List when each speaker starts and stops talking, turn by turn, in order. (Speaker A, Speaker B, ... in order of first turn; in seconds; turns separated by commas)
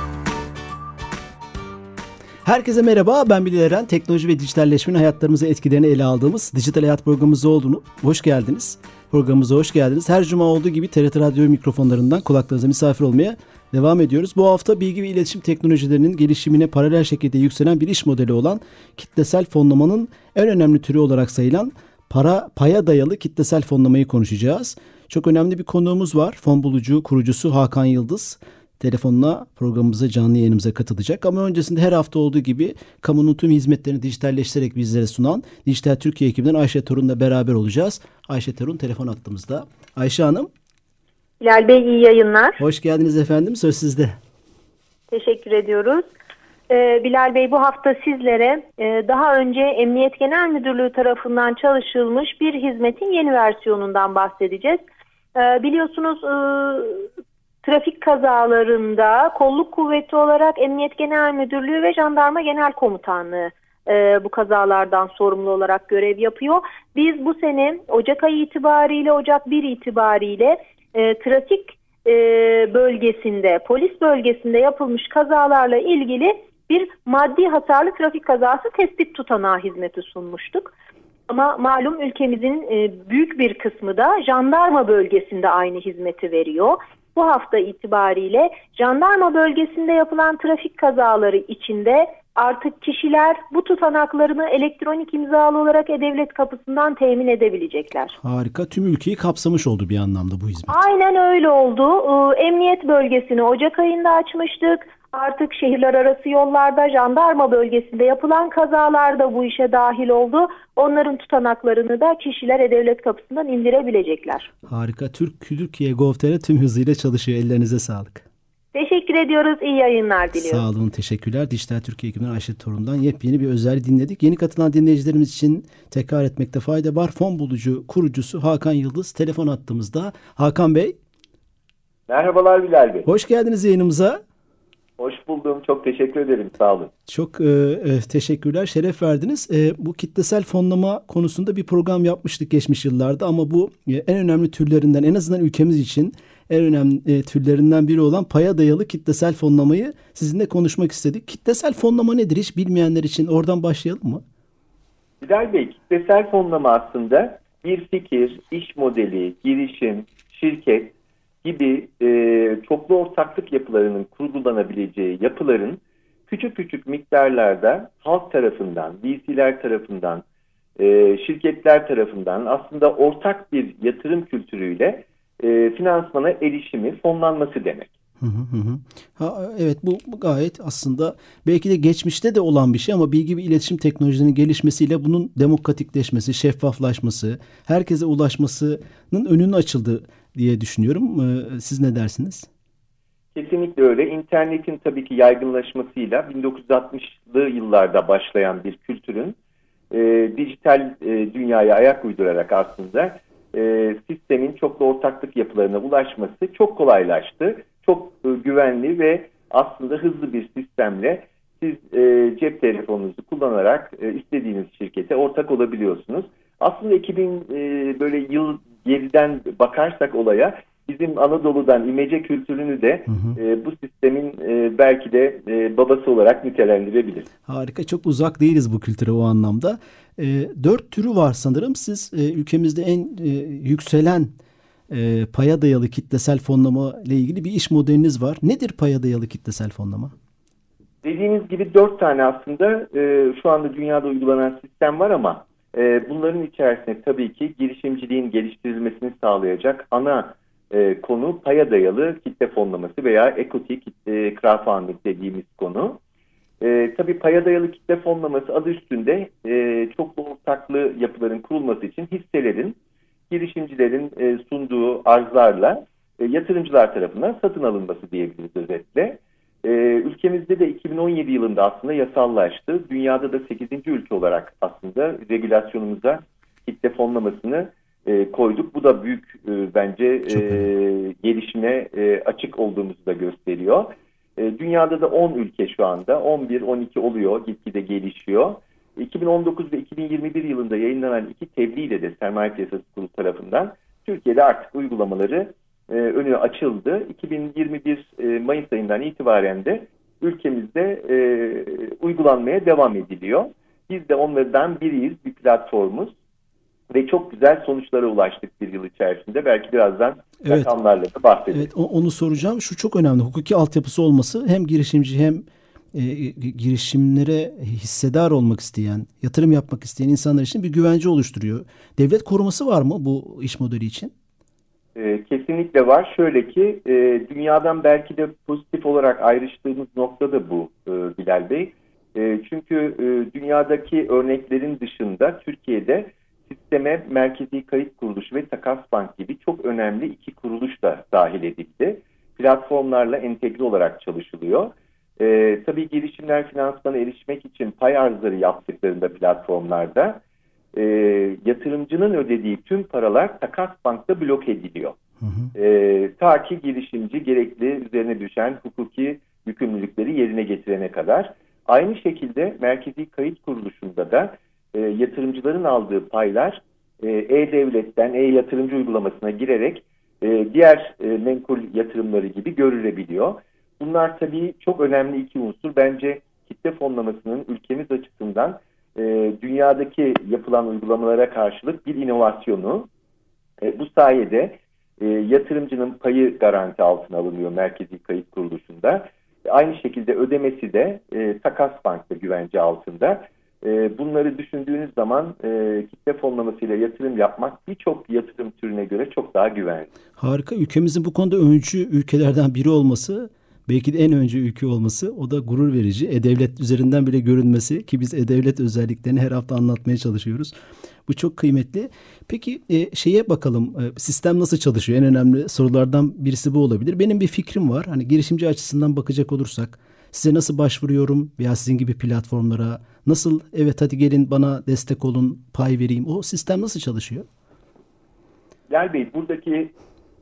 Speaker A: 2.4-40.5, Speaker B: 41.4-42.6, Speaker A: 42.6-44.1, Speaker B: 45.1-46.0, Speaker B: 46.7-54.8, Speaker B: 55.3-57.1, Speaker B: 57.6-80.7, Speaker B: 81.3-98.1, Speaker A: 98.2-100.7, Speaker B: 100.7-114.5, Speaker A: 114.7-118.2, Speaker B: 118.7-120.6, Speaker A: 120.3-131.0, Speaker C: 132.1-133.1, Speaker A: 133.1-134.2, Speaker C: 135.0-136.9, Speaker A: 137.1-154.2, Speaker C: 155.2-170.2, Speaker C: 170.8-177.9, Speaker A: 178.2-192.5, Speaker C: 193.3-199.3, Speaker C: 199.9-227.3, Speaker A: 223.1-223.4, Speaker A: 227.4-234.3, Speaker A: 234.9-240.1, Speaker C: 241.0-256.0, Speaker C: 256.6-262.8, Speaker C: 263.3-306.1, Speaker A: 280.3-280.7, Speaker C: 306.9-311.7, Speaker A: 310.4-310.7, Speaker A: 311.5-324.1, Speaker C: 324.9-350.2, Speaker C: 350.7-355.0, Speaker A: 355.2-355.5, Speaker C: 355.5-382.9, Speaker C: 383.6-399.9, Speaker A: 400.2-410.5, Speaker A: 411.1-427.3, Speaker C: 428.7-429.7